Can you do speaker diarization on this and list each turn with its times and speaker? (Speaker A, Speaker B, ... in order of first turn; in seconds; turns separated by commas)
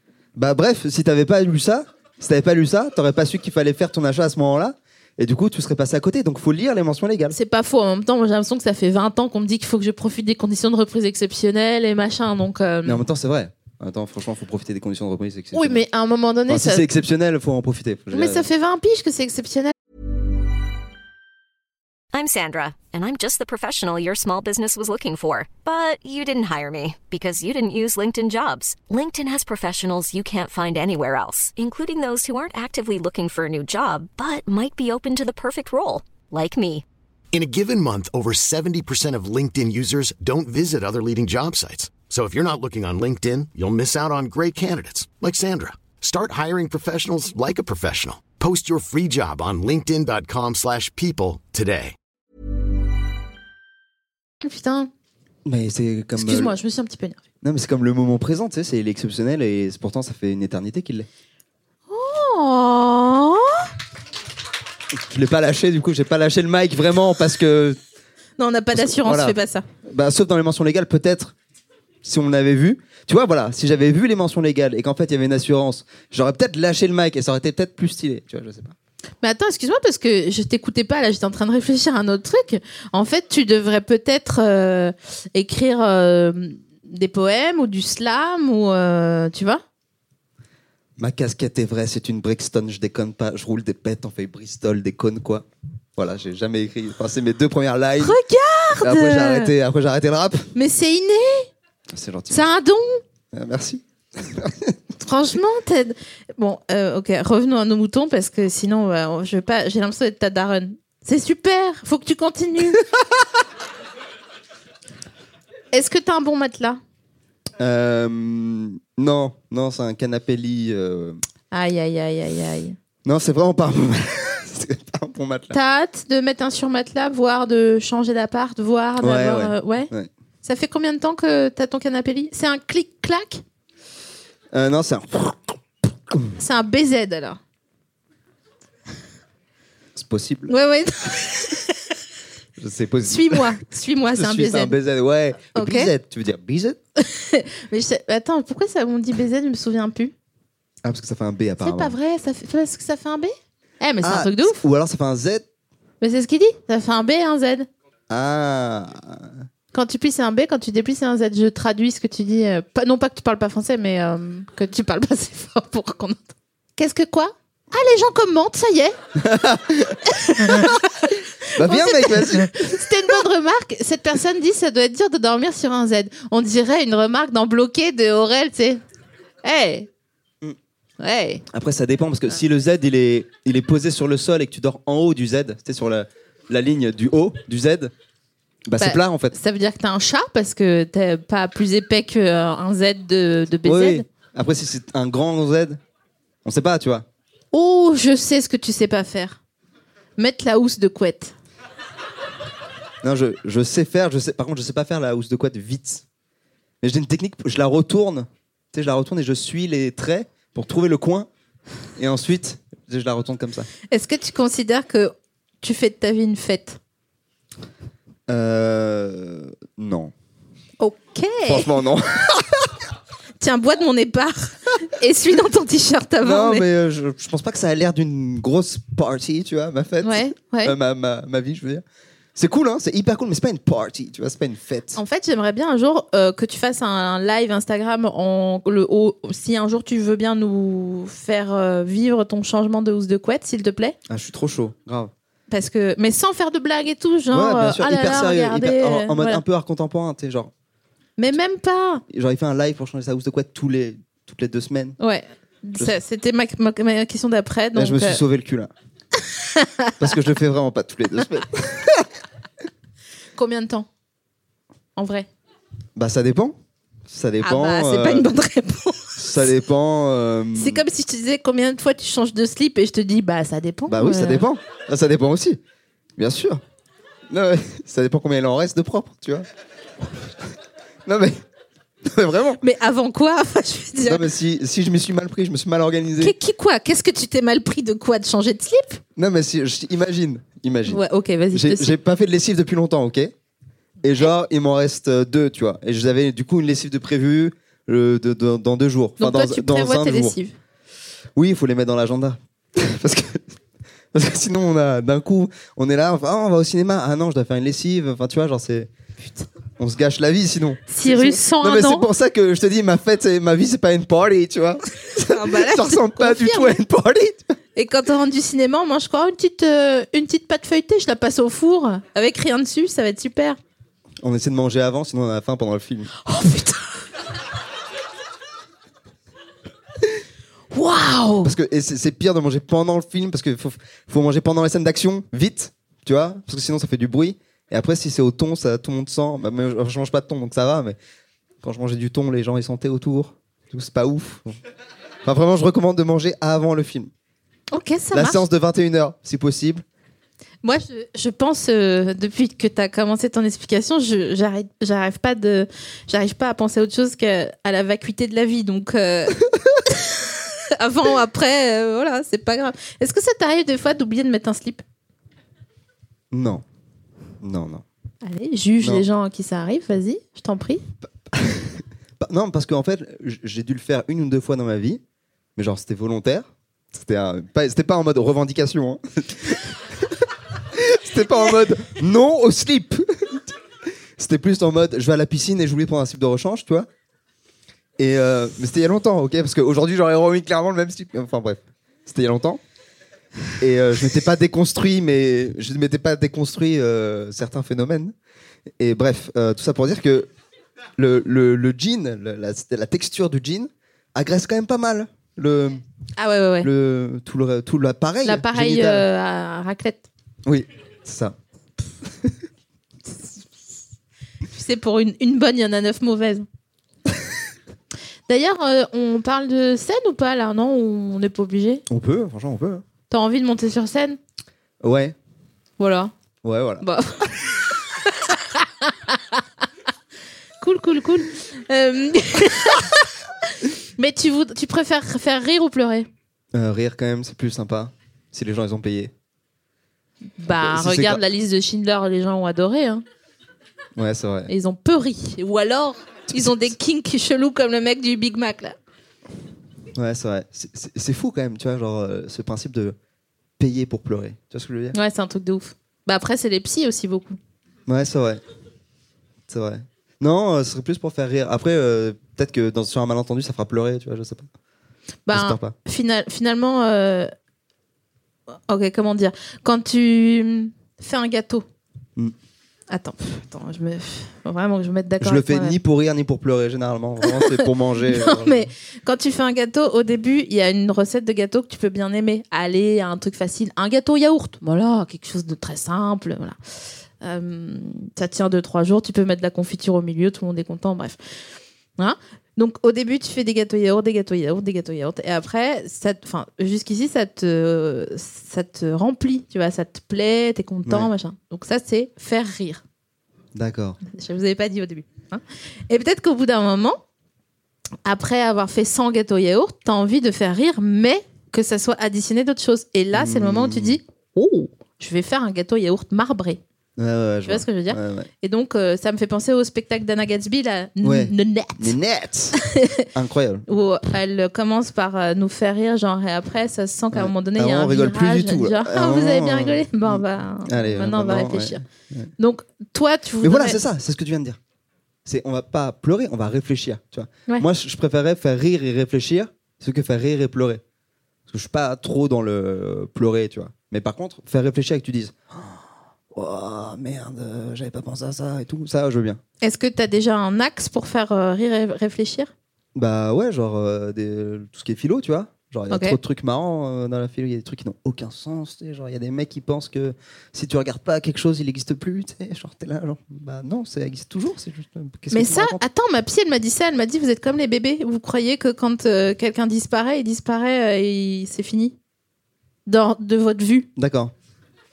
Speaker A: 0.3-7.3, Speaker B: 7.3-13.0, Speaker A: 12.8-15.8, Speaker B: 15.5-16.8, Speaker A: 16.5-18.5, Speaker B: 18.1-19.7, Speaker C: 22.1-36.8, Speaker D: 37.3-52.0, Speaker B: 54.4-54.9, Speaker A: 55.4-56.5, Speaker B: 56.2-57.2, Speaker A: 57.4-61.1, Speaker B: 61.9-63.7, Speaker A: 64.9-67.8, Speaker B: 68.4-69.6, Speaker A: 68.7-71.3, Speaker A: 72.0-78.7, Speaker B: 79.2-89.6, Speaker A: 91.0-95.5, Speaker A: 96.0-98.2, Speaker B: 98.0-99.5, Speaker A: 98.8-100.5, Speaker B: 100.5-101.5, Speaker A: 101.9-102.5, Speaker B: 102.3-103.0, Speaker A: 103.3-104.8, Speaker B: 105.0-112.8, Speaker B: 115.7-116.8, Speaker A: 117.6-121.2, Speaker B: 121.5-122.8, Speaker A: 123.0-125.5, Speaker B: 125.5-129.9, Speaker A: 129.0-130.1, Speaker B: 130.4-133.4, Speaker A: 134.5-136.3, Speaker B: 136.4-137.4, Speaker A: 139.9-140.5, Speaker B: 140.5-141.9, Speaker A: 142.6-143.5, Speaker B: 143.1-144.8, Speaker A: 144.1-146.8, Speaker B: 145.5-145.9, Speaker B: 147.0-150.1, Speaker A: 150.8-151.9, Speaker B: 151.6-154.6, Speaker A: 154.0-155.4, Speaker B: 156.0-157.7, Speaker A: 158.1-159.3, Speaker B: 159.7-168.9, Speaker A: 169.2-170.7, Speaker B: 170.1-178.8, Speaker A: 171.6-172.8, Speaker B: 179.4-179.9, Speaker B: 181.0-181.4, Speaker A: 181.5-187.9, Speaker A: 188.7-189.3, Speaker B: 188.8-194.0, Speaker A: 193.6-195.8, Speaker A: 196.4-197.1, Speaker B: 197.5-199.4, Speaker B: 200.2-201.3, Speaker A: 203.0-206.0, Speaker A: 206.8-211.3, Speaker A: 212.0-213.7, Speaker B: 213.9-216.8, Speaker A: 218.3-220.1, Speaker B: 220.8-221.7, Speaker A: 221.5-222.7, Speaker B: 223.4-226.7, Speaker A: 226.2-231.8, Speaker B: 230.0-230.8, Speaker A: 232.3-235.0, Speaker B: 234.9-243.9, Speaker A: 244.1-245.1, Speaker B: 245.5-249.4, Speaker A: 247.3-250.5, Speaker B: 251.2-252.0, Speaker A: 252.1-255.0, Speaker B: 255.0-258.2, Speaker A: 257.7-258.7, Speaker B: 259.3-259.9, Speaker A: 260.0-262.1, Speaker B: 263.3-263.9, Speaker B: 264.9-265.3, Speaker A: 265.9-266.6, Speaker A: 267.1-268.3, Speaker B: 267.4-269.4, Speaker A: 269.2-270.8, Speaker B: 270.5-274.4, Speaker A: 273.9-275.6, Speaker A: 276.2-276.6, Speaker A: 277.3-279.4, Speaker A: 281.1-281.4, Speaker A: 282.0-282.6, Speaker B: 282.6-284.3, Speaker A: 284.1-286.3, Speaker B: 286.2-289.0, Speaker A: 289.1-293.3, Speaker B: 290.9-291.9, Speaker A: 294.0-300.4, Speaker B: 299.2-300.5, Speaker A: 301.3-303.4, Speaker A: 304.1-308.9, Speaker A: 309.8-317.6, Speaker B: 310.9-312.1, Speaker B: 315.1-316.8, Speaker B: 317.7-323.6, Speaker A: 324.2-326.1, Speaker B: 326.2-326.9, Speaker B: 330.7-331.5, Speaker A: 331.4-341.0, Speaker A: 341.6-344.5, Speaker A: 345.2-347.1, Speaker B: 347.7-348.4, Speaker A: 348.1-349.8, Speaker B: 350.6-364.8, Speaker A: 366.3-366.6, Speaker A: 367.4-367.8, Speaker B: 368.2-370.8, Speaker A: 371.3-375.0, Speaker A: 375.6-383.6, Speaker A: 384.2-386.9, Speaker A: 388.0-392.6, Speaker A: 393.6-398.1, Speaker A: 398.8-400.3, Speaker A: 401.0-405.8, Speaker B: 406.2-406.7, Speaker A: 406.6-409.0, Speaker B: 408.2-410.1, Speaker A: 410.4-411.4, Speaker A: 412.1-412.3, Speaker B: 414.5-416.4, Speaker B: 418.3-421.8, Speaker A: 421.9-422.8, Speaker B: 423.1-424.2, Speaker A: 424.8-425.1, Speaker B: 425.8-426.1, Speaker A: 426.4-426.8, Speaker B: 426.8-429.4, Speaker B: 430.6-436.1, Speaker A: 436.5-439.1, Speaker B: 440.4-443.0, Speaker A: 440.5-441.2, Speaker A: 443.9-444.5, Speaker B: 444.5-448.8, Speaker A: 446.3-446.7, Speaker A: 449.9-452.9, Speaker A: 453.6-454.9, Speaker B: 454.9-457.4, Speaker A: 457.9-458.4, Speaker A: 459.5-464.5, Speaker B: 465.2-467.3, Speaker A: 465.3-465.7, Speaker B: 468.7-471.6, Speaker B: 472.9-475.8, Speaker A: 475.2-478.7, Speaker B: 477.2-486.6, Speaker B: 487.2-491.2, Speaker B: 492.0-502.8, Speaker A: 503.5-504.0, Speaker B: 504.0-507.0, Speaker B: 508.0-516.6, Speaker A: 513.1-514.0, Speaker A: 517.0-518.3, Speaker B: 517.5-522.0, Speaker A: 521.0-522.6, Speaker B: 522.5-523.0, Speaker A: 523.1-523.6, Speaker B: 523.7-531.8, Speaker A: 527.1-532.3, Speaker B: 532.4-533.8, Speaker A: 533.4-534.6, Speaker A: 535.2-540.8, Speaker A: 541.5-549.4, Speaker B: 549.6-552.5, Speaker A: 553.0-565.8, Speaker B: 555.9-556.2, Speaker B: 565.3-571.9, Speaker B: 572.9-573.9, Speaker A: 574.0-574.3